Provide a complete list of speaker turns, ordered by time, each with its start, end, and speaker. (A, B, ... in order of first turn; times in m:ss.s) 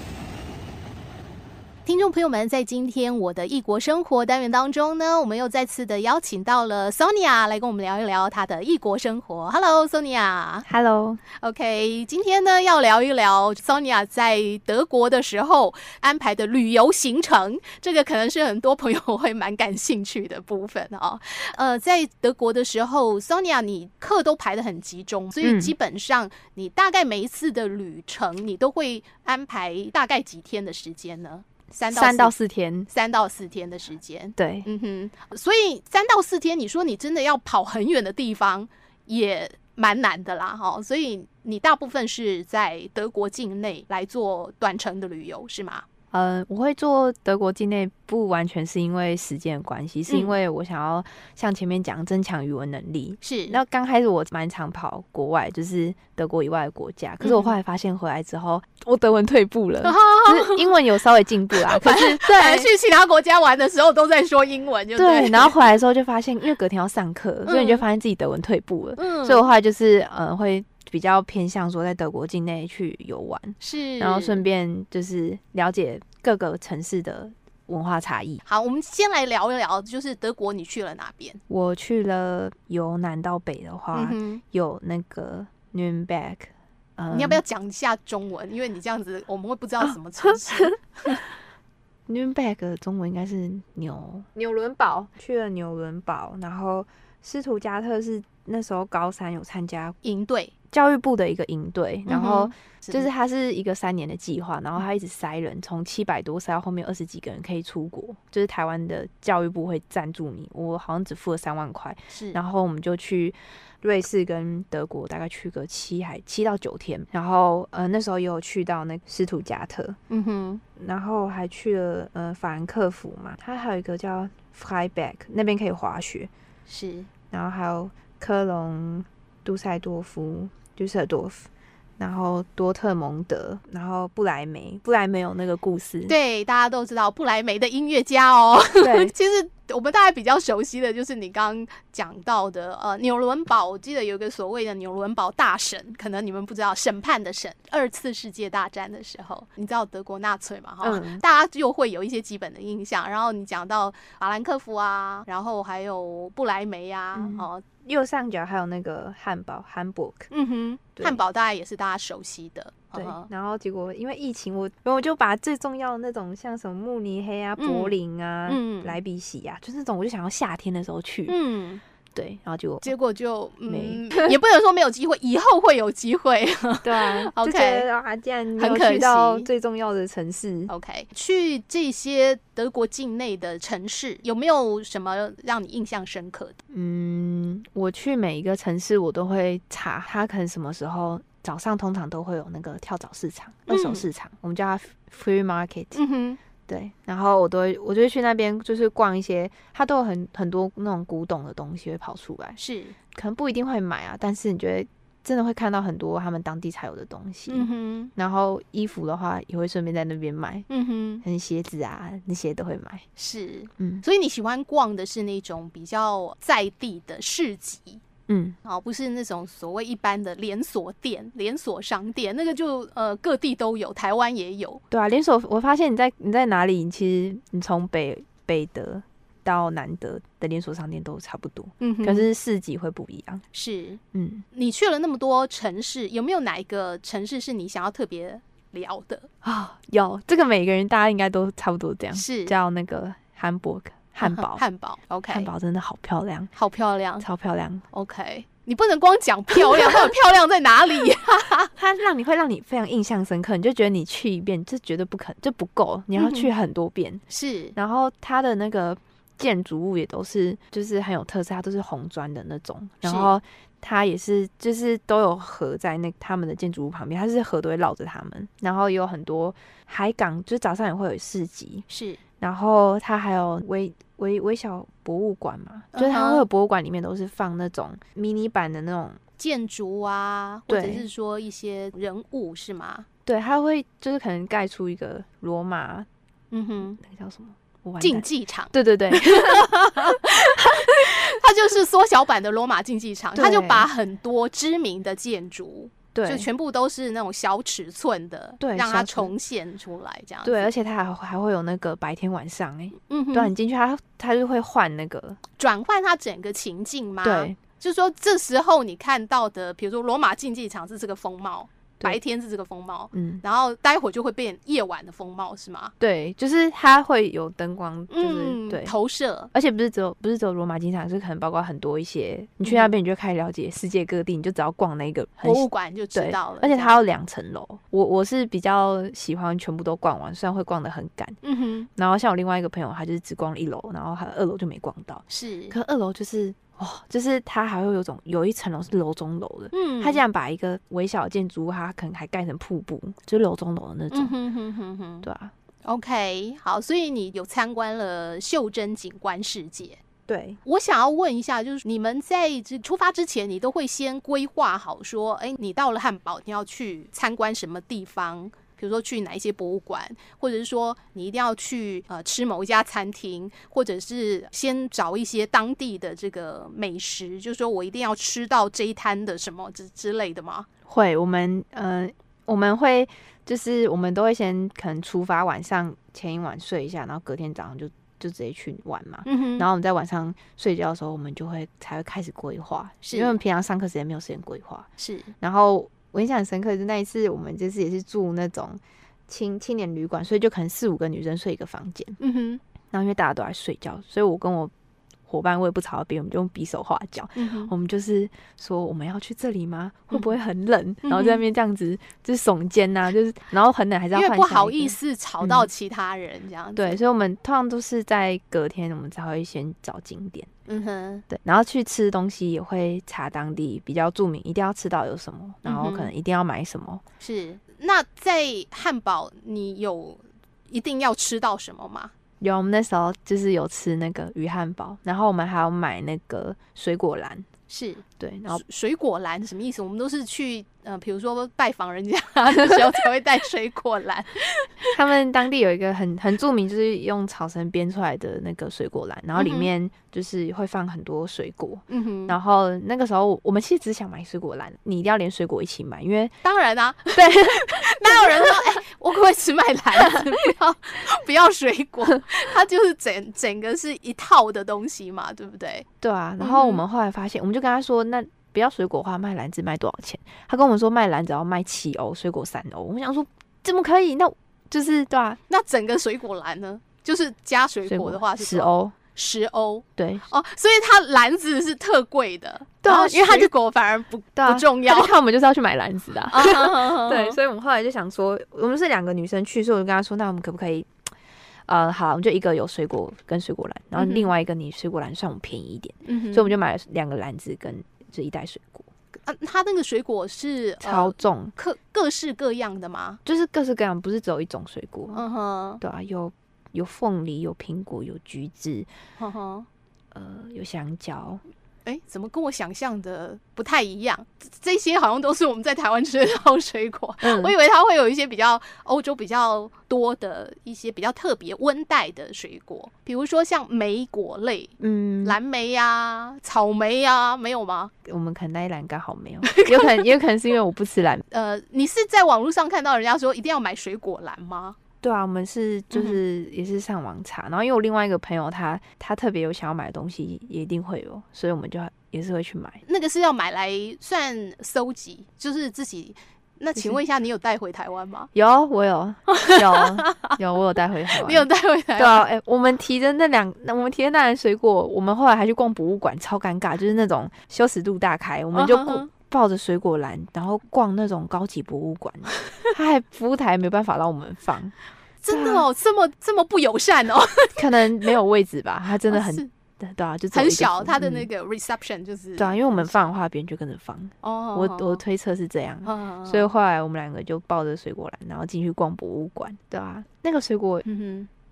0:01.8-0:10.7 A
0:10.6-0:11.2 B
0:11.4-0:32.3 A
0:25.4-0:25.7 B
0:31.9-0:32.9 B
0:32.9-0:45.8 A
0:34.4-0:34.7 B
0:46.1-1:02.7 B
0:50.1-0:50.4 A
0:53.2-0:53.6 A
0:57.2-0:57.5 A
0:59.8-1:00.7 A
1:01.5-1:05.5 A
1:05.0-1:18.4 B
1:07.4-1:07.8 A
1:09.0-1:09.4 A
1:13.6-1:14.4 A
1:18.4-1:21.4 A
1:21.5-1:27.4 B
1:23.9-1:24.4 A
1:27.1-1:30.7 A
1:29.8-1:31.2 B
1:32.1-1:40.0 B
1:40.0-1:40.5 A
1:40.7-2:00.0 B
1:42.1-1:43.1 A
1:52.1-1:52.4 A
2:00.1-2:00.6 A
2:00.8-2:06.3 B
2:06.7-2:07.1 A
2:07.3-2:16.2 B
2:16.1-2:37.6 A
2:18.8-2:19.1 B
2:30.8-2:31.2 B
2:37.2-2:40.3 B
2:40.3-2:43.3 A
2:42.9-2:51.4 B
2:47.6-2:48.0 A
2:48.5-2:49.0 A
2:51.3-2:51.8 A
2:52.1-2:52.9 B
2:52.8-2:57.9 A
2:53.6-2:54.4 B
2:56.8-3:00.7 B
2:58.6-2:59.5 A
3:00.7-3:06.6 A
3:06.7-3:16.0 B
3:13.7-3:14.0 A
3:16.0-3:16.4 A
3:16.7-3:22.6 B
3:22.6-3:23.0 A
3:23.1-3:30.7 B
3:27.5-3:28.1 A
3:30.7-3:31.2 A
3:31.2-3:33.0 B
3:33.2-3:38.0 A
3:33.8-3:34.0 B
3:38.3-3:38.6 B
3:38.6-3:44.8 A
3:44.9-3:53.4 B
3:51.8-3:52.3 A
3:53.5-3:54.0 A
3:54.1-3:54.4 B
3:54.5-3:59.3 A
3:59.4-4:04.6 B
4:02.1-4:02.6 A
4:04.2-4:05.5 A
4:05.3-4:06.5 B
4:06.6-4:07.2 A
4:07.2-4:07.8 B
4:07.9-4:11.7 A
4:11.7-4:17.2 B
4:16.2-4:16.5 A
4:17.3-4:17.7 A
4:17.8-4:31.8 B
4:23.0-4:23.3 A
4:31.9-4:32.2 A
4:32.4-4:39.2 B
4:35.9-4:36.4 A
4:39.4-4:43.0 A
4:40.7-4:41.0 B
4:43.2-4:46.1 B
4:46.5-4:47.0 A
4:47.0-4:50.1 B
4:48.0-5:00.7 A
4:53.3-4:53.9 B
4:56.1-4:56.5 B
4:58.6-4:59.3 B
5:00.4-5:05.4 B
5:03.0-5:03.5 A
5:05.6-5:15.9 A
5:07.2-5:07.6 B
5:13.1-5:13.4 B
5:16.0-5:18.9 B
5:18.1-5:19.5 A
5:19.5-5:31.4 B
5:22.6-5:22.9 A
5:25.4-5:27.0 A
5:31.4-5:31.9 A
5:32.0-5:44.3 B
5:35.3-5:35.8 A
5:39.7-5:40.2 A
5:44.1-5:45.3 A
5:45.2-5:45.5 B
5:45.8-5:50.0 A
5:50.3-5:50.6 B
5:50.6-6:10.7 A
6:10.9-6:24.9 B
6:19.2-6:19.7 A
6:23.0-6:23.4 A
6:25.0-6:25.3 A
6:25.4-6:32.2 B
6:32.2-6:32.6 A
6:32.9-6:34.7 B
6:35.3-6:45.7 B
6:37.4-6:37.7 A
6:41.0-6:41.4 A
6:44.1-6:47.0 A
6:46.8-6:50.5 B
6:50.7-6:51.2 A
6:51.3-6:57.0 B
6:55.6-6:56.1 A
6:57.2-7:02.1 A
7:02.4-7:07.5 B
7:07.7-7:14.9 A
7:08.2-7:08.6 B
7:14.9-7:26.4 B
7:19.4-7:19.7 A
7:21.9-7:22.4 A
7:26.4-7:35.8 A
7:27.1-7:28.5 B
7:36.0-7:45.4 B
7:36.4-7:36.8 A
7:45.5-7:55.1 A
7:47.8-7:48.9 B
7:50.0-7:50.2 B
7:52.8-7:53.5 B
7:54.4-8:00.9 B
7:56.3-7:57.4 A
8:01.6-8:08.9 B
8:04.0-8:04.3 A
8:06.1-8:06.5 A
8:09.2-8:13.2 A
8:10.8-8:11.5 B
8:13.2-8:15.2 B
8:15.1-8:15.8 A
8:15.8-8:18.9 B
8:19.2-8:19.7 A
8:20.1-8:21.4 B
8:21.8-8:34.7 A
8:27.2-8:27.5 B
8:34.8-8:35.4 B
8:35.2-8:37.9 A
8:38.0-8:41.2 B
8:39.4-8:39.9 A
8:41.3-8:44.8 A
8:45.0-8:52.8 B
8:45.9-8:46.2 A
8:52.8-8:58.3 A
8:56.7-8:57.0 B
8:58.3-9:14.7 B
8:59.3-9:00.4 A
9:01.2-9:02.2 A
9:08.5-9:09.1 A
9:15.2-9:18.1 A
9:15.3-9:15.6 B
9:17.6-9:21.3 B
9:19.1-9:19.5 A
9:20.3-9:23.1 A
9:22.4-9:30.8 B
9:24.2-9:25.0 A
9:25.8-9:26.5 A
9:30.8-9:31.3 A